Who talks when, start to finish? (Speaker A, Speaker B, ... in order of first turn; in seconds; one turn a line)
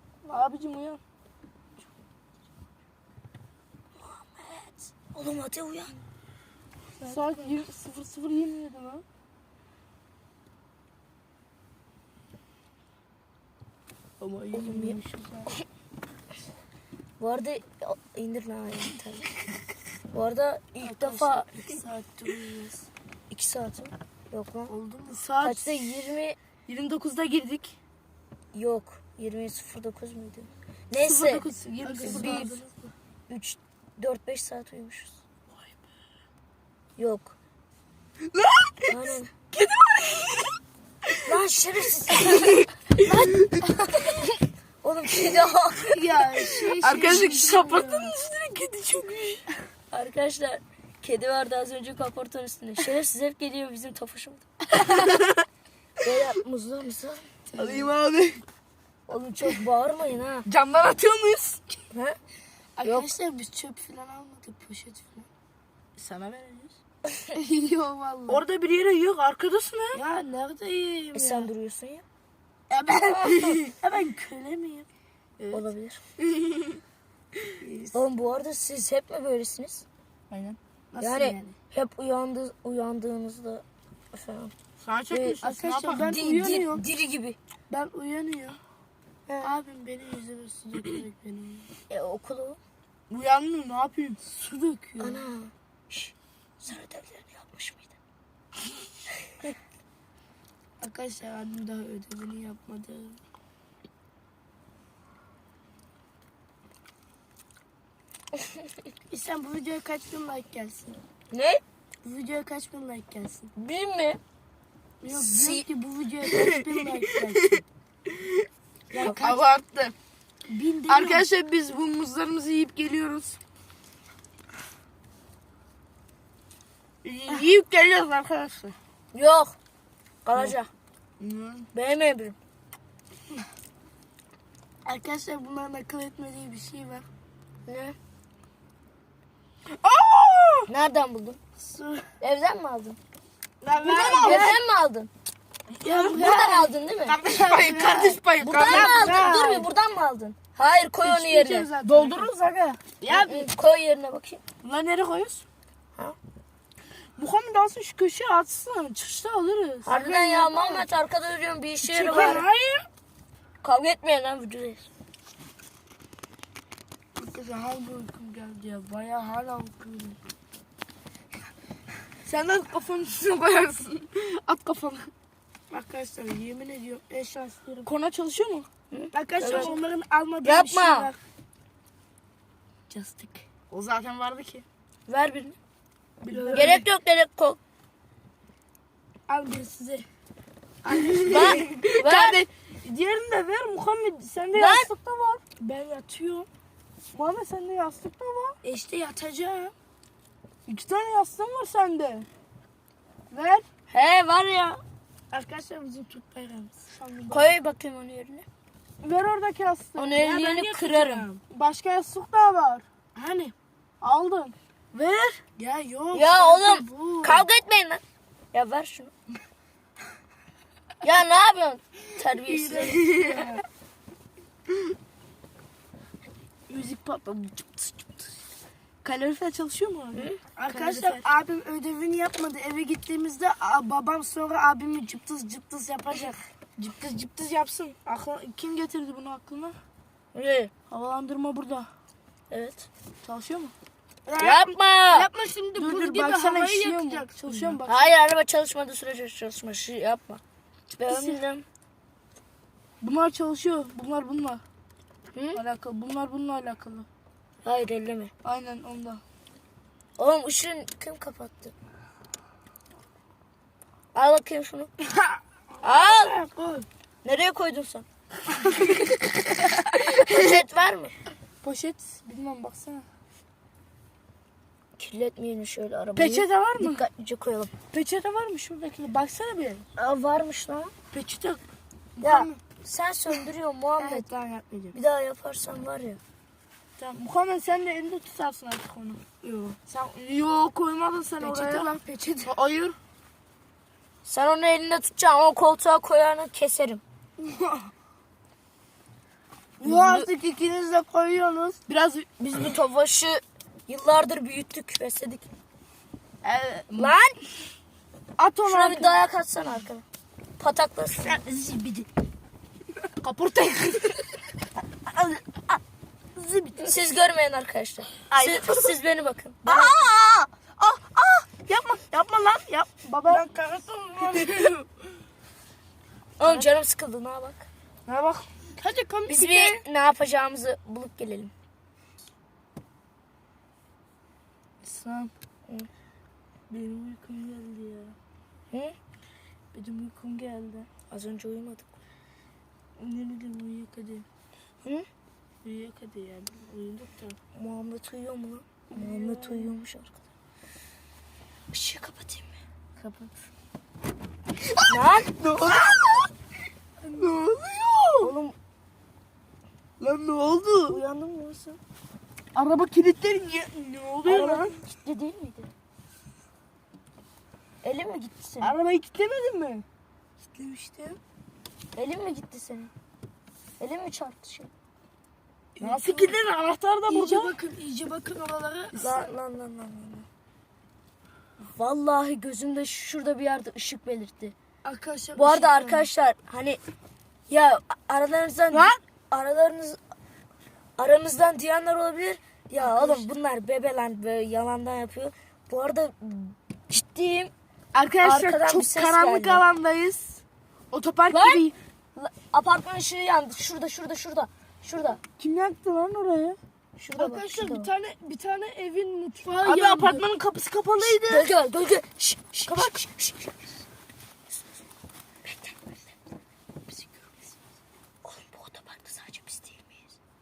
Speaker A: 0.3-1.0
Speaker B: 4.0-6.0
Speaker C: 7.0-7.6
Speaker A: 7.0-9.0
Speaker A: 14.2-15.5
Speaker B: 14.5-15.6
Speaker B: 17.2-19.3
Speaker B: 20.1-21.5
Speaker C: 20.8-22.9
Speaker B: 23.3-24.7
Speaker C: 24.7-25.2
Speaker A: 25.1-26.1
Speaker B: 25.4-26.4
Speaker A: 26.7-27.8
Speaker B: 28.5-31.5
Speaker A: 31.0-32.7
Speaker C: 31.8-32.7
Speaker B: 32.0-32.5
Speaker B: 33.3-35.2
Speaker B: 37.0-37.4
Speaker A: 38.3-41.3
Speaker B: 38.9-39.3
Speaker B: 41.2-44.2
Speaker A: 42.1-43.6
Speaker B: 44.8-46.2
Speaker C: 45.9-48.1
Speaker A: 46.8-49.5
Speaker B: 49.9-55.0
Speaker A: 54.8-55.4
Speaker B: 56.0-57.3
Speaker A: 57.5-58.4
Speaker B: 59.1-60.5
Speaker A: 60.5-61.8
Speaker B: 61.9-62.2
Speaker C: 62.8-65.3
Speaker B: 62.8-63.1
Speaker A: 66.0-66.8
Speaker C: 67.3-68.4
Speaker A: 68.3-70.0
Speaker C: 69.9-71.5
Speaker B: 71.1-72.0
Speaker C: 72.7-74.9
Speaker A: 73.1-73.7
Speaker A: 75.4-75.7
Speaker B: 75.5-76.0
Speaker A: 76.2-76.8
Speaker C: 77.6-78.0
Speaker B: 77.9-79.8
Speaker A: 80.3-80.6
Speaker C: 80.9-81.5
Speaker B: 81.0-84.5
Speaker A: 84.8-86.1
Speaker B: 85.1-85.4
Speaker C: 85.4-86.8
Speaker B: 86.0-87.4
Speaker C: 87.7-88.6
Speaker B: 89.3-89.5
Speaker C: 89.4-91.7
Speaker B: 91.9-92.6
Speaker A: 93.1-94.4
Speaker C: 94.4-95.0
Speaker B: 95.0-97.9
Speaker B: 99.2-99.5
Speaker C: 100.8-103.2
Speaker C: 109.1-111.0
Speaker B: 111.3-111.6
Speaker C: 112.0-113.5
Speaker B: 113.6-114.2
Speaker C: 115.0-117.6
Speaker B: 115.1-115.7
Speaker A: 116.3-118.5
Speaker C: 118.9-119.4
Speaker A: 119.0-119.9
Speaker C: 120.5-121.3
Speaker A: 120.9-123.4
Speaker A: 127.0-128.8
Speaker B: 129.1-129.6
Speaker B: 130.2-130.7
Speaker A: 131.2-131.7
Speaker B: 131.7-132.4
Speaker C: 134.8-137.1
Speaker B: 137.7-138.0
Speaker A: 139.8-140.7
Speaker B: 140.7-141.4
Speaker C: 141.6-142.1
Speaker B: 142.2-143.0
Speaker C: 143.6-144.6
Speaker A: 143.7-144.6
Speaker B: 143.8-145.1
Speaker A: 145.8-146.3
Speaker C: 145.8-149.7
Speaker B: 146.1-147.2
Speaker A: 147.1-149.1
Speaker B: 148.4-151.7
Speaker C: 151.0-152.4
Speaker A: 151.8-153.5
Speaker B: 153.1-154.4
Speaker A: 154.6-155.4
Speaker A: 157.2-160.7
Speaker B: 159.8-162.5
Speaker A: 161.8-162.8
Speaker C: 162.0-162.6
Speaker B: 163.6-164.9
Speaker A: 167.2-170.2
Speaker A: 172.2-175.1
Speaker C: 175.7-177.9
Speaker A: 177.8-178.7
Speaker B: 178.9-179.8
Speaker C: 179.1-181.2
Speaker A: 179.4-179.8
Speaker B: 180.4-181.1
Speaker C: 182.9-183.4
Speaker A: 183.7-184.7
Speaker B: 185.1-185.6
Speaker A: 186.2-186.8
Speaker C: 186.2-186.8
Speaker B: 186.5-187.6
Speaker C: 189.3-190.1
Speaker C: 190.8-191.7
Speaker A: 190.9-195.4
Speaker B: 191.2-192.4
Speaker B: 194.5-194.9
Speaker C: 195.6-196.5
Speaker A: 197.1-198.6
Speaker C: 198.6-199.7
Speaker A: 200.7-202.3
Speaker A: 203.3-203.6
Speaker B: 203.9-204.8
Speaker C: 205.3-207.5
Speaker B: 207.3-208.5
Speaker A: 209.0-212.9
Speaker B: 210.0-211.3
Speaker C: 213.2-213.5
Speaker A: 214.0-215.4
Speaker C: 215.6-217.5
Speaker B: 216.1-218.0
Speaker B: 218.5-219.1
Speaker B: 221.0-223.4
Speaker C: 222.5-223.5
Speaker A: 222.7-223.6
Speaker A: 226.7-228.3
Speaker A: 229.0-231.3
Speaker B: 230.1-230.4
Speaker C: 230.6-236.4
Speaker A: 236.8-239.8
Speaker B: 240.3-240.7
Speaker A: 240.9-241.8
Speaker B: 242.5-242.9
Speaker A: 243.2-243.7
Speaker C: 244.3-247.8
Speaker B: 244.4-245.3
Speaker A: 245.8-248.0
Speaker B: 247.8-250.4
Speaker B: 250.9-251.7
Speaker A: 253.0-254.6
Speaker B: 255.3-255.6
Speaker A: 255.5-257.1
Speaker B: 257.6-258.3
Speaker A: 258.4-259.2
Speaker B: 260.2-261.7
Speaker B: 264.1-264.9
Speaker C: 265.8-266.9
Speaker B: 265.8-266.4
Speaker B: 267.2-268.1
Speaker B: 268.7-269.0
Speaker B: 269.9-271.1
Speaker A: 271.6-273.1
Speaker B: 275.0-277.7
Speaker A: 276.2-277.0
Speaker A: 277.9-279.9
Speaker B: 280.0-280.9
Speaker A: 281.1-281.6
Speaker A: 282.2-282.6
Speaker B: 282.2-284.3
Speaker C: 284.0-284.9
Speaker A: 284.6-284.9
Speaker B: 284.9-286.2
Speaker A: 287.0-291.9
Speaker C: 291.4-292.5
Speaker A: 292.5-293.0
Speaker B: 294.2-297.0
Speaker C: 299.8-301.8
Speaker B: 299.8-300.3
Speaker A: 301.9-302.9
Speaker B: 302.5-305.5
Speaker A: 306.4-307.1
Speaker B: 306.9-307.4
Speaker A: 308.4-309.1
Speaker B: 308.7-310.0
Speaker B: 310.6-311.4
Speaker A: 311.3-312.0
Speaker A: 313.2-314.4
Speaker A: 315.1-315.8
Speaker A: 316.4-316.9
Speaker B: 316.8-320.0
Speaker A: 318.3-318.9
Speaker A: 319.6-324.9
Speaker C: 322.9-323.4
Speaker B: 326.4-327.7
Speaker A: 328.1-328.5
Speaker C: 328.8-329.8
Speaker B: 329.3-331.5
Speaker A: 334.8-335.3
Speaker A: 336.7-338.1
Speaker A: 339.7-340.9
Speaker B: 341.1-341.9
Speaker A: 343.0-344.2
Speaker A: 345.6-347.4
Speaker B: 347.6-350.2
Speaker A: 348.9-349.7
Speaker B: 351.7-352.6
Speaker A: 353.0-353.3
Speaker A: 354.6-356.3
Speaker B: 354.9-355.3
Speaker A: 357.1-358.3
Speaker B: 358.2-358.6
Speaker A: 360.0-361.0
Speaker B: 360.9-361.8
Speaker A: 362.5-364.8
Speaker B: 364.2-365.7
Speaker B: 367.8-368.8
Speaker A: 368.6-369.8
Speaker A: 370.6-371.0
Speaker B: 371.9-372.9
Speaker B: 373.8-374.7
Speaker C: 375.8-376.4
Speaker A: 375.8-377.6
Speaker C: 377.1-379.3
Speaker B: 379.0-380.3
Speaker B: 381.8-384.6
Speaker C: 384.8-386.1
Speaker B: 385.4-386.8
Speaker B: 387.5-390.0
Speaker B: 391.0-397.5
Speaker A: 392.8-393.3
Speaker A: 397.9-400.4
Speaker B: 398.2-399.7
Speaker A: 400.9-401.7
Speaker B: 401.3-405.2
Speaker A: 405.4-406.6
Speaker B: 407.0-407.9
Speaker C: 407.1-410.2
Speaker A: 409.6-411.5
Speaker B: 411.0-413.5
Speaker A: 412.7-413.0
Speaker B: 415.4-416.0
Speaker B: 418.2-420.2